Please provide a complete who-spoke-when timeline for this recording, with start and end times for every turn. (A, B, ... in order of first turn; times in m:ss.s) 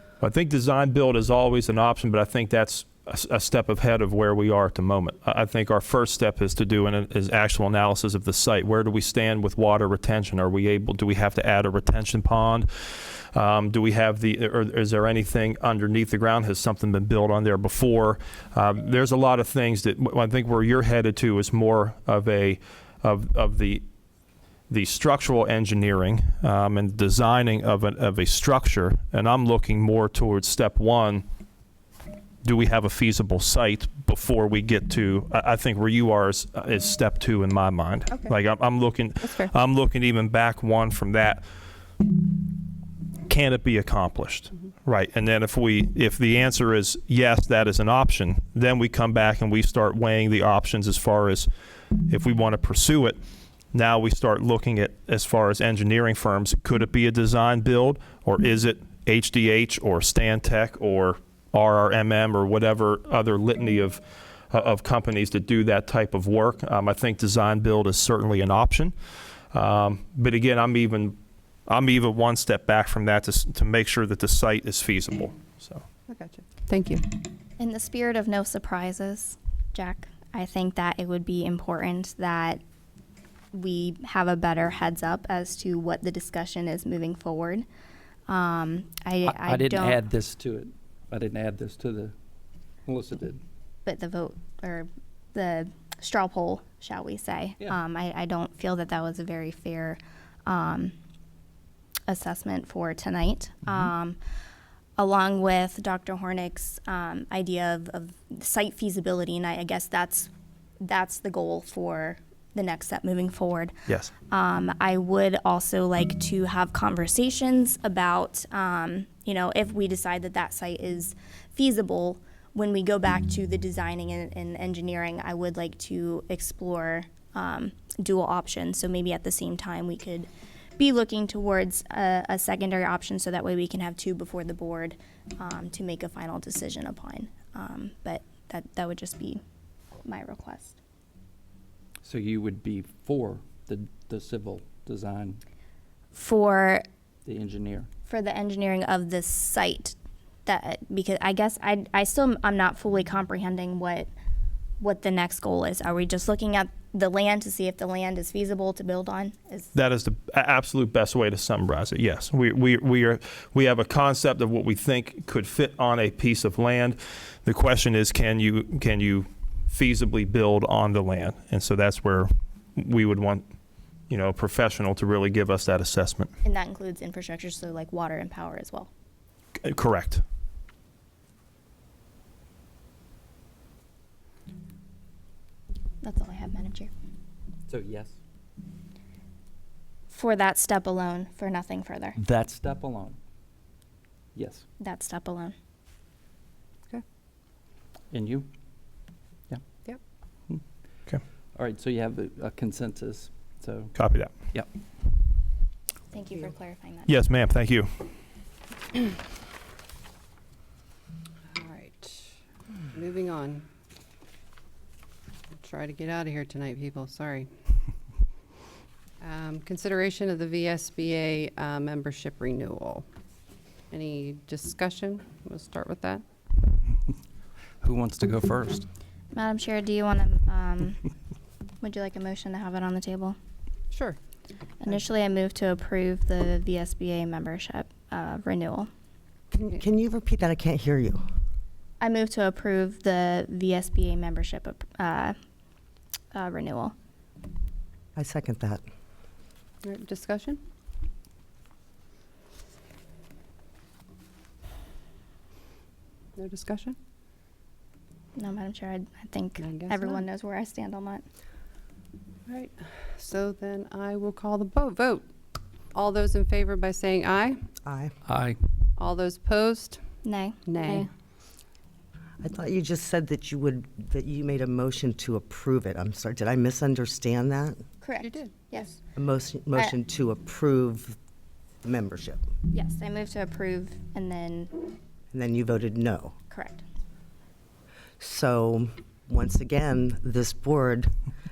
0:00.2-0:23.8 A
0:24.7-0:31.2 A
0:32.4-0:41.4 A
0:38.1-0:38.4 B
0:39.2-0:39.5 B
0:43.3-0:51.5 A
0:52.1-0:53.2 A
0:53.7-1:08.9 A
1:09.5-1:15.8 A
1:16.1-1:17.2 B
1:17.6-1:22.6 C
1:23.5-1:27.7 C
1:28.3-1:30.0 C
1:29.2-1:32.1 D
1:32.9-1:33.4 D
1:33.8-1:40.9 C
1:42.1-1:44.2 C
1:45.0-1:50.3 C
1:50.8-1:53.8 C
1:53.9-1:54.1 A
1:54.3-2:19.4 C
2:20.0-2:20.8 C
2:22.0-2:25.4 D
2:26.1-2:26.8 C
2:27.2-2:27.9 D
2:28.1-2:34.1 C
2:34.8-2:39.7 C
2:39.7-2:53.4 A
2:54.1-2:56.3 A
2:56.4-2:58.9 C
2:59.6-3:00.2 A
3:06.0-3:06.9 C
3:07.7-3:08.1 D
3:10.1-3:12.2 C
3:12.2-3:13.2 D
3:14.4-3:14.6 D
3:14.8-3:15.6 C
3:18.1-3:18.5 D
3:21.6-3:23.9 D
3:24.0-3:24.3 A
3:26.1-3:27.2 C
3:27.1-3:28.1 A
3:31.5-3:32.4 B
3:32.9-3:33.7 B
3:35.6-3:37.5 B
3:39.2-3:43.1 B
3:43.9-3:46.2 B
3:47.8-3:48.9 D
3:49.3-3:51.0 C
3:51.8-3:53.4 C
3:53.9-3:54.2 B
3:54.8-3:58.9 C
3:59.6-4:01.2 E
4:02.0-4:05.4 C
4:06.3-4:07.0 C
4:08.2-4:08.8 E
4:09.8-4:10.6 B
4:16.4-4:17.0 B
4:18.4-4:21.3 C
4:19.6-4:20.2 B
4:22.5-4:25.3 B
4:25.9-4:27.7 B
4:27.8-4:28.1 E
4:28.3-4:28.6 D
4:29.0-4:30.0 B
4:30.2-4:31.1 C
4:30.7-4:31.1 B
4:32.4-4:37.8 E
4:38.0-4:38.9 C
4:38.2-4:38.9 B
4:39.2-4:41.2 E
4:41.8-4:42.4 E
4:42.7-4:44.9 C
4:45.3-4:46.4 E
4:46.5-4:46.8 C
4:48.2-4:51.1 E